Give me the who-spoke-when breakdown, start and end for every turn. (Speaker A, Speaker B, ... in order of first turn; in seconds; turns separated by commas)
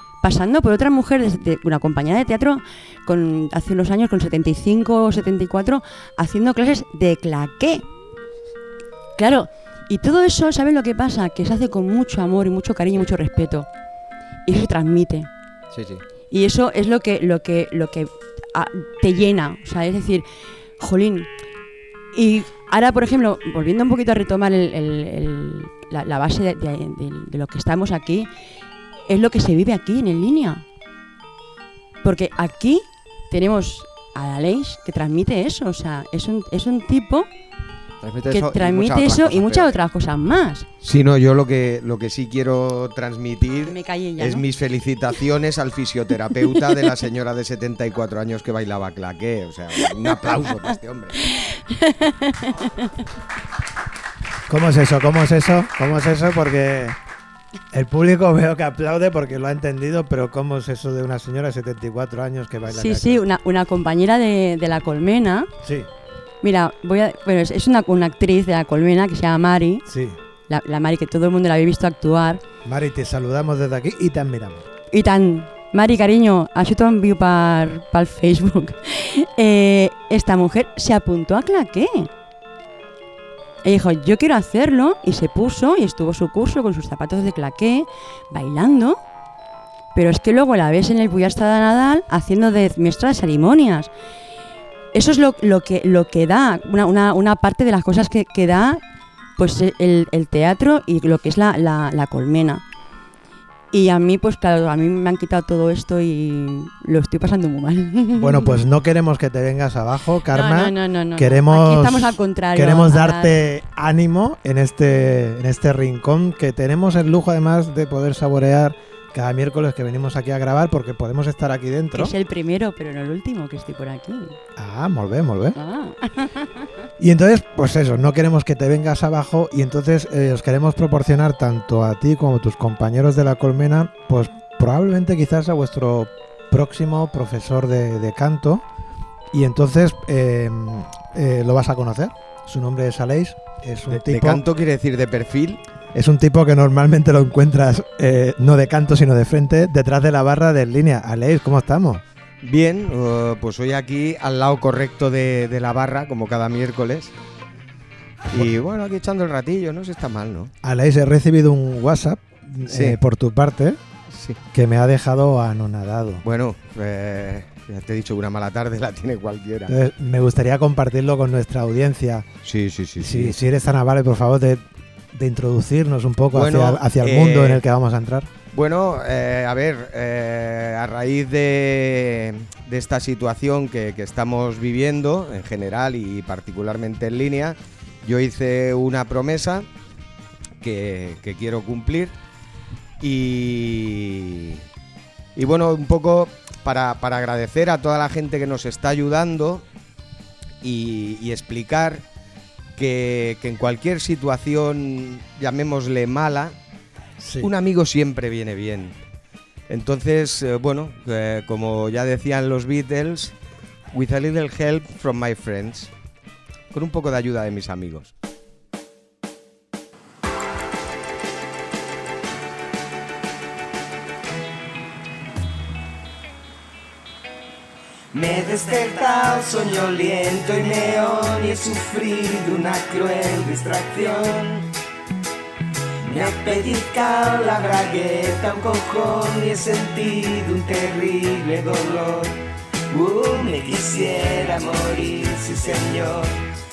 Speaker A: 0.2-7.8, Speaker A: 9.2-13.7, Speaker A: 14.5-15.3, Speaker B: 15.7-16.0, Speaker A: 16.3-20.3, Speaker A: 20.8-21.3, Speaker A: 22.1-28.3, Speaker A: 29.1-30.6, Speaker A: 32.0-37.3, Speaker B: 38.0-39.7, Speaker A: 38.3-40.7, Speaker C: 40.8-51.2, Speaker A: 43.6-44.4, Speaker A: 51.2-52.9, Speaker D: 54.5-57.0, Speaker D: 57.7-63.2, Speaker A: 62.7-65.5, Speaker D: 65.6-65.9, Speaker A: 66.4-69.8, Speaker D: 69.9-70.2, Speaker A: 70.5-72.4, Speaker D: 72.6-74.6, Speaker A: 74.9-82.1, Speaker A: 83.6-89.0, Speaker A: 89.9-93.9, Speaker A: 94.9-98.8, Speaker A: 99.4-102.6, Speaker A: 103.7-108.6, Speaker D: 108.2-122.1, Speaker A: 110.3-113.3, Speaker A: 121.9-124.4, Speaker D: 124.6-125.6, Speaker A: 125.5-126.5, Speaker D: 127.0-138.6, Speaker D: 139.3-144.4, Speaker C: 143.9-145.6, Speaker D: 145.9-152.0, Speaker C: 152.4-157.1, Speaker C: 158.3-160.5, Speaker D: 160.6-163.8, Speaker C: 162.7-163.0, Speaker C: 164.1-164.4, Speaker D: 164.5-166.2, Speaker C: 166.2-169.7, Speaker D: 169.7-172.3, Speaker C: 172.4-173.3, Speaker D: 173.0-178.3, Speaker C: 176.3-177.6, Speaker C: 178.5-189.7, Speaker C: 190.6-192.1, Speaker C: 193.0-194.6, Speaker C: 195.4-199.6, Speaker C: 200.6-202.1, Speaker C: 202.8-206.6, Speaker D: 207.2-207.5, Speaker C: 207.4-209.0, Speaker C: 209.7-213.3, Speaker C: 213.9-215.9, Speaker C: 216.7-218.1, Speaker E: 228.1-234.7, Speaker E: 236.0-242.3, Speaker E: 242.9-246.3